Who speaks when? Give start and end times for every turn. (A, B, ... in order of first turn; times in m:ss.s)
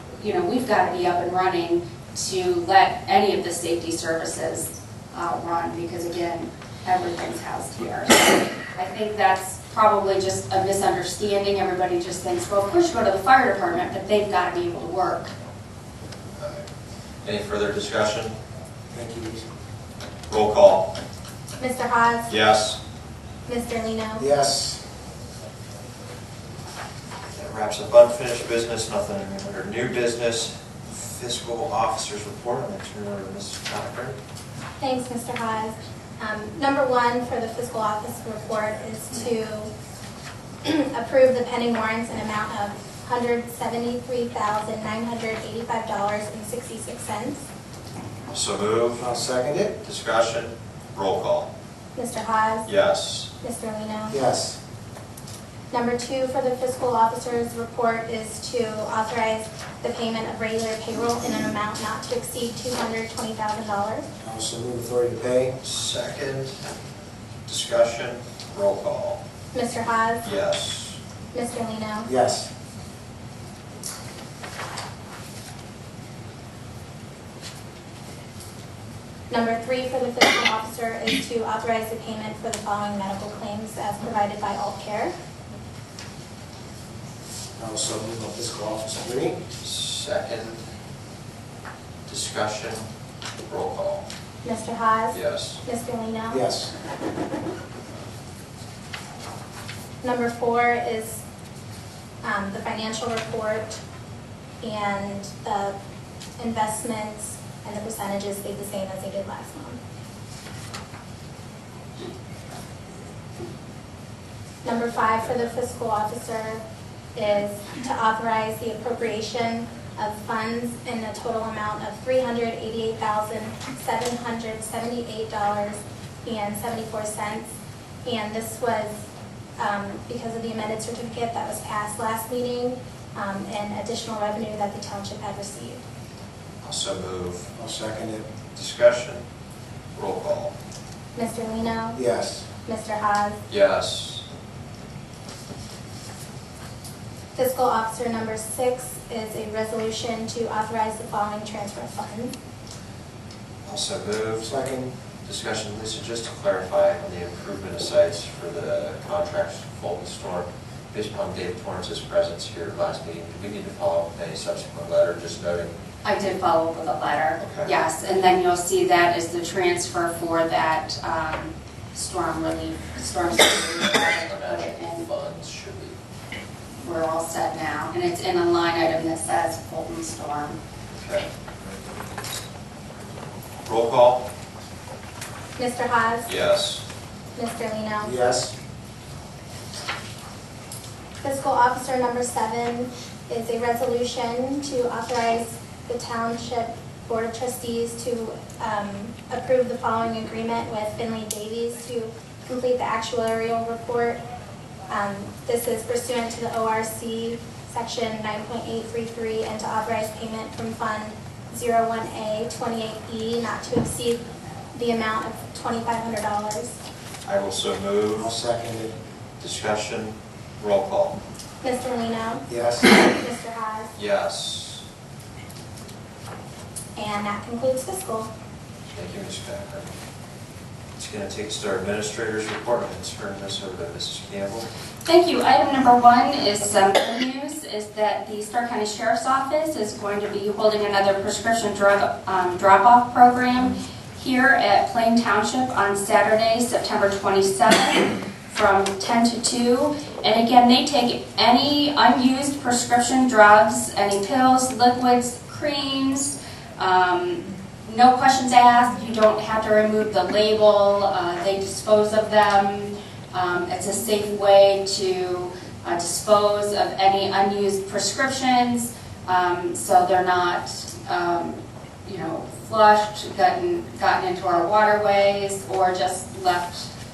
0:00.2-0:15.3 A
0:16.4-0:16.7 B
0:17.2-0:18.3 B
0:18.9-0:19.4 C
0:20.3-0:20.9 B
0:21.6-0:22.3 D
0:22.3-0:22.8 B
0:23.4-0:24.2 D
0:24.2-0:24.8 C
0:27.3-0:34.2 B
0:34.8-0:39.7 D
0:40.6-0:47.4 D
0:48.3-0:49.1 B
0:49.0-0:49.7 C
0:49.8-0:51.5 B
0:52.0-0:52.7 D
0:52.6-0:53.3 B
0:53.4-0:54.2 D
0:54.1-0:54.6 C
0:55.7-1:04.0 D
1:04.2-1:05.5 C
1:05.6-1:06.7 B
1:07.4-1:09.2 B
1:09.5-1:10.2 D
1:10.2-1:11.0 B
1:11.3-1:12.1 D
1:12.1-1:12.5 C
1:19.3-1:25.1 D
1:27.6-1:29.4 C
1:29.6-1:30.6 B
1:32.1-1:32.8 B
1:33.4-1:34.0 B
1:34.4-1:36.4 D
1:35.1-1:35.6 B
1:36.3-1:36.7 C
1:40.0-1:41.2 D
1:42.2-1:43.8 D
1:44.6-1:45.8 D
1:46.4-1:49.8 D
1:54.6-1:56.6 D
1:57.2-2:07.5 D
2:08.0-2:09.0 D
2:09.6-2:15.8 D
2:16.6-2:17.5 B
2:17.6-2:18.2 C
2:18.6-2:19.2 B
2:20.0-2:20.5 B
2:21.2-2:22.0 D
2:21.9-2:22.5 C
2:22.6-2:23.4 D
2:23.5-2:24.2 B
2:27.3-2:32.3 D
2:33.6-2:34.5 B
2:34.4-2:34.9 C
2:35.2-2:45.8 B
2:46.0-2:55.0 A
2:47.4-2:47.7 B
2:54.1-2:56.0 B
2:56.8-3:00.6 A
3:00.9-3:01.3 B
3:03.6-3:04.2 B
3:05.6-3:06.3 D
3:06.2-3:06.8 B
3:07.4-3:08.1 D
3:08.0-3:08.5 C
3:11.2-3:24.2 D
3:24.9-3:36.8 D
3:37.2-3:38.3 B
3:38.2-3:38.9 C
3:39.4-3:41.2 B
3:41.6-3:43.9 D
3:42.5-3:42.9 C
3:43.9-3:44.8 B
3:47.0-3:48.3 D
3:48.9-3:49.9 B
3:51.0-3:54.7 B
3:55.0-4:36.9 A